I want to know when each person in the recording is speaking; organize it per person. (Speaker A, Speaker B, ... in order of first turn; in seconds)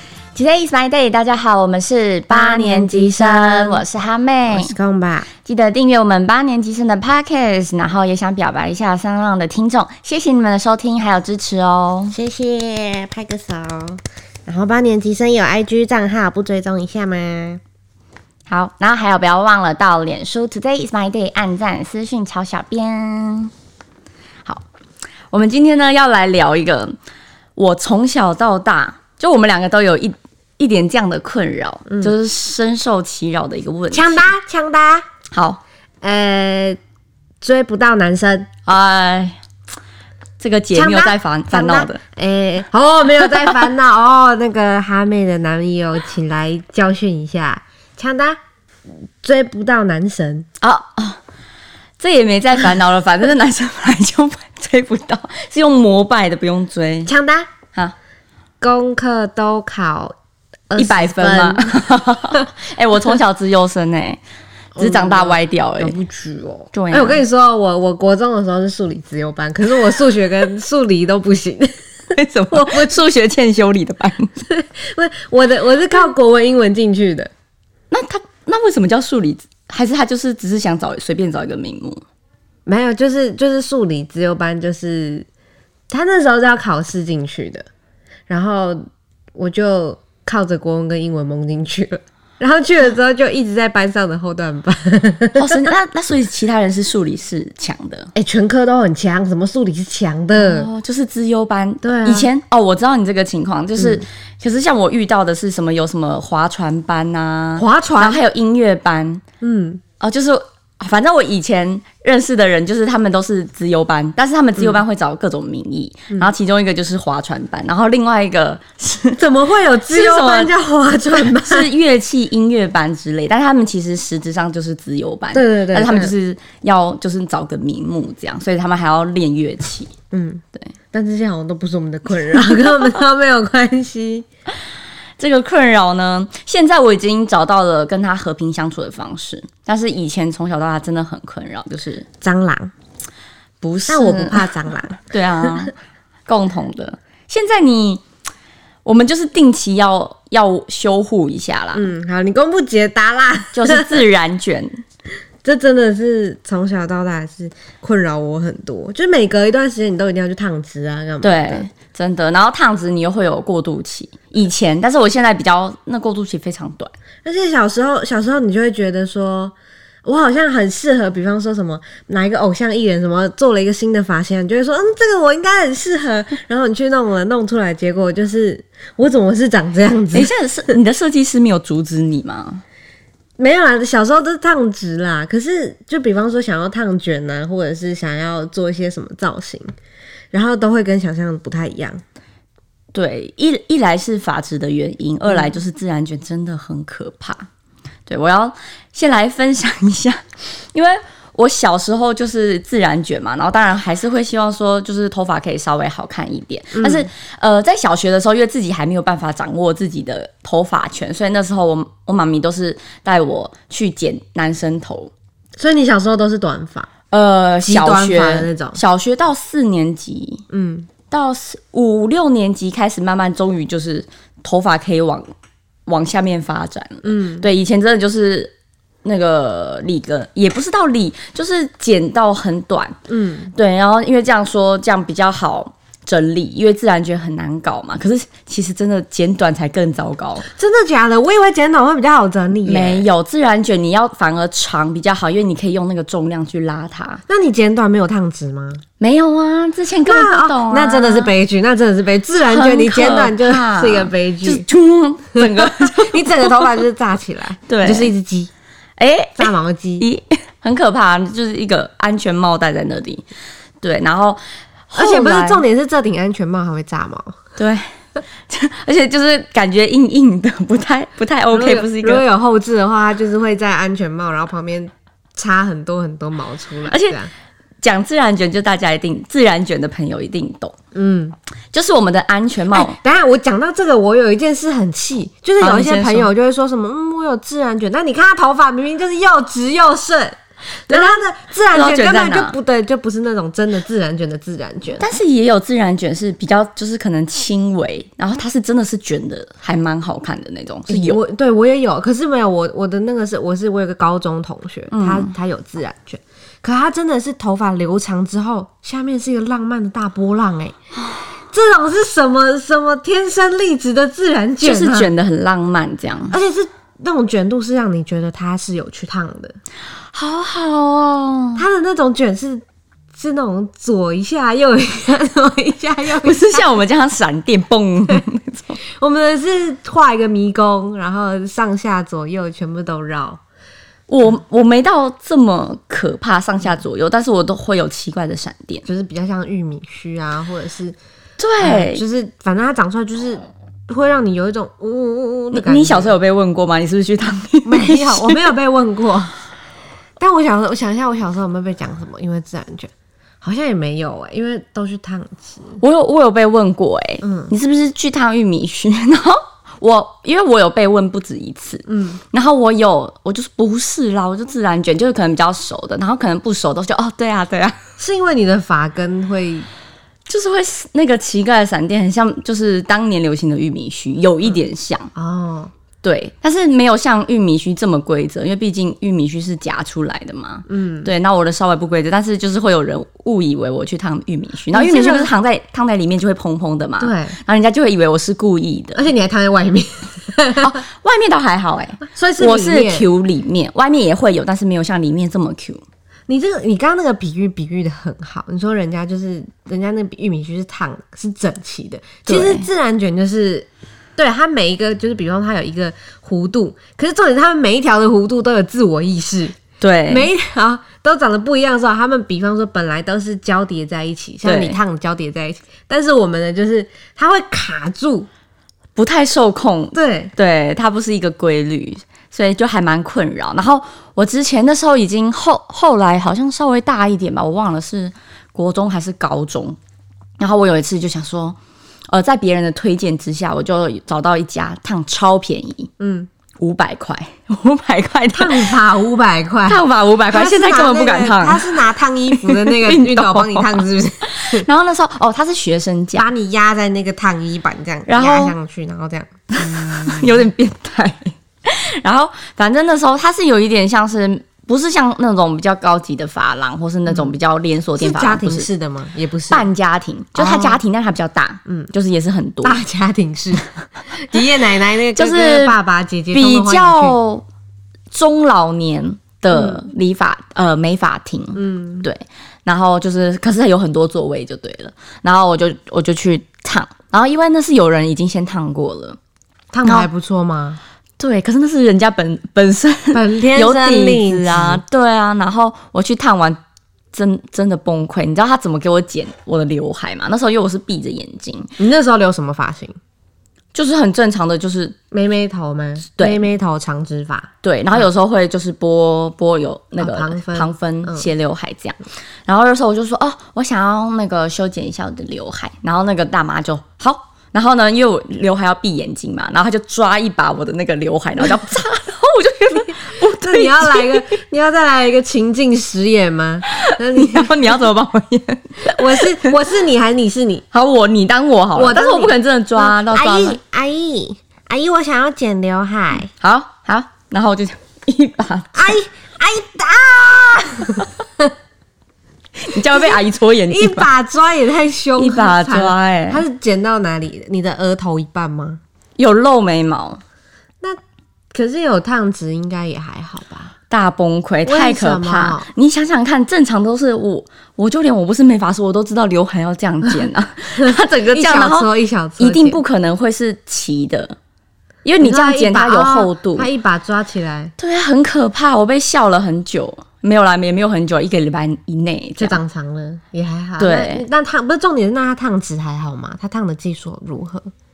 Speaker A: 0.3-4.7, 5.4-12.1, 18.5-23.5, 25.3-26.9, 27.6-34.3, 35.3-35.6, 38.6-39.4, 40.4-42.0, 50.6-51.2, 52.0-57.1, 60.8-64.2, 64.8-66.0, 66.7-67.2, 72.1-74.4, 77.9-82.0, 95.3-98.1, 100.3-109.2, 110.0-119.2, 119.9-120.5, 121.2-129.9, 135.2-142.1, 143.6-144.5, 145.0-145.7, 146.3-148.0, 148.8-151.9, 153.5-154.8, 161.2-166.9, 180.1-182.6, 192.9-197.5, 198.1-215.1, 217.1-220.4, 221.1-225.3, 225.9-228.5, 229.0-233.0, 233.5-240.5, 242.6-247.2, 249.0-251.3, 252.5-256.7, 257.7-258.1, 259.0-263.2, 263.8-265.6, 267.6-267.9, 268.5-272.2, 276.9-277.2, 277.8-280.8, 281.7-283.0, 285.6-286.3, 290.9-291.2, 291.7-292.5, 295.0-301.2, 304.9-305.3, 314.6-316.3, 320.1-321.6, 326.2-328.8, 334.1-338.8, 341.4-342.0, 345.5-348.5, 355.8-367.8, 370.3-375.1, 376.0-389.1, 390.5-395.8, 402.3-402.6, 409.8-410.3, 414.4-414.8, 418.9-429.8, 430.4-431.6, 432.1-435.9, 436.6-438.8, 439.6-446.3, 448.1-448.5, 449.5-458.7, 459.5-462.8, 465.1-465.7, 466.3-467.4, 468.1-479.2, 481.2-486.6, 487.1-491.7, 493.7-495.0, 496.2-496.4, 497.6-514.3, 516.7-519.5, 520.7-523.6, 526.4-529.0, 532.6-534.1, 535.2-536.4, 539.2-540.2, 543.9-551.9, 552.4-554.4, 555.0-556.7, 557.8-562.6, 563.8-564.2
Speaker B: 2.3-3.8, 4.5-5.3, 12.1-17.6, 33.9-35.0, 36.0-36.8, 37.4-38.5, 40.7-48.4, 49.2-50.5, 57.0-57.5, 58.6-60.1, 60.7-62.4, 64.8-72.9, 74.5-77.3, 82.7-85.2, 85.9-87.7, 88.3-88.8, 89.3-95.6, 98.1-100.7, 101.8-102.3, 107.6-108.2, 109.4-109.8, 119.2-121.7, 125.3-126.1, 130.1-134.2, 142.2-142.7, 143.9-145.5, 151.7-154.0, 155.4-161.7, 167.2-180.3, 183.4-189.7, 190.3-192.0, 195.3-195.5, 206.7-207.1, 215.6-216.9, 217.6-218.8, 220.5-220.9, 227.0-227.5, 233.1-233.5, 240.5-243.1, 247.3-248.8, 250.0-254.7, 255.3-258.5, 259.4-260.0, 265.0-267.4, 271.5-277.3, 280.9-281.3, 282.7-295.1, 300.9-310.8, 311.5-315.1, 316.3-319.6, 321.6-322.6, 323.1-326.7, 328.8-333.4, 338.8-341.0, 341.6-346.1, 347.6-349.3, 350.2-352.9, 353.4-355.8, 357.2-357.5, 361.9-362.2, 368.0-369.7, 375.1-375.7, 380.7-381.1, 384.7-385.3, 387.0-387.4, 388.9-390.7, 392.1-393.1, 396.3-409.6, 410.1-418.3, 419.9-420.3, 436.0-436.3, 438.3-444.6, 446.2-450.4, 458.0-459.7, 460.4-460.8, 462.6-467.2, 469.5-469.8, 471.6-472.1, 479.7-480.8, 483.1-484.8, 491.8-492.9, 495.1-498.1, 500.0-501.3, 512.7-517.8, 518.8-520.6, 521.7-526.3, 528.7-531.5, 532.9-538.8, 541.5-543.7, 544.6-545.7, 550.8-552.8, 555.2-557.7, 562.4-567.7